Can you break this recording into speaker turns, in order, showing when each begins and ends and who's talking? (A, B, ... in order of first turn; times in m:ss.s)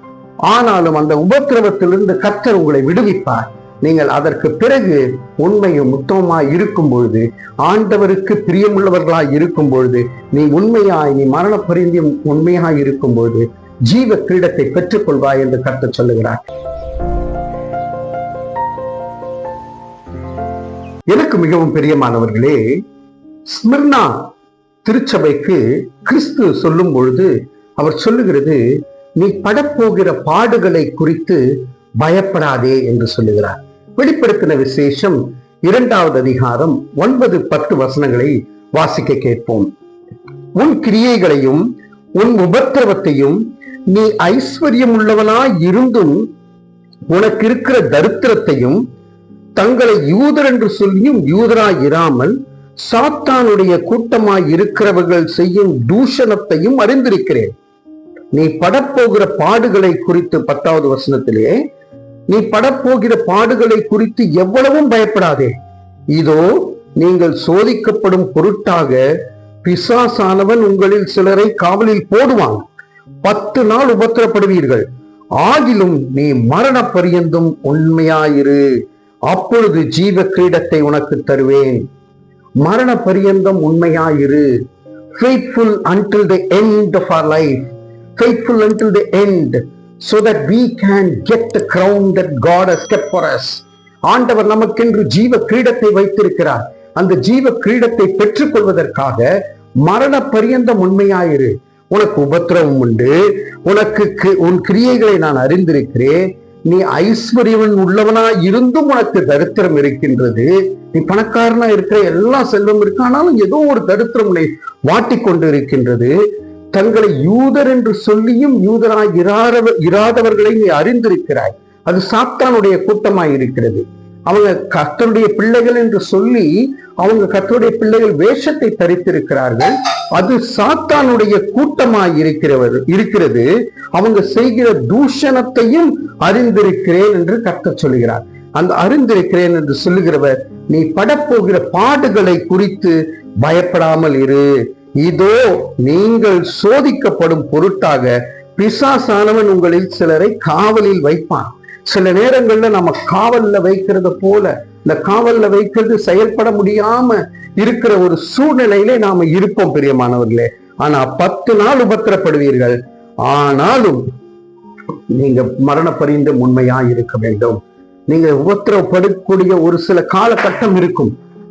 0:00.5-0:16.4 A
0:21.1-0:22.6 A
0:23.5-0:24.3 A
0:24.8-0:28.6 A
0:29.2-0:31.4 A
0:32.0-0:39.7 A
0:40.6-0:41.6 A
0:42.2-0:46.2 A
0:47.1-0:48.8 A
0:49.6-0:57.5 A
0:58.3-1:01.6 A
1:02.3-1:05.5 A
1:06.1-1:09.0 A
1:09.6-1:12.6 A
1:13.2-1:14.8 A
1:15.4-1:18.6 A
1:19.3-1:21.8 A
1:22.6-1:24.5 A
1:25.1-1:56.2 A
1:56.7-2:24.5 A
2:25.0-2:44.0 A
2:45.1-2:51.1 A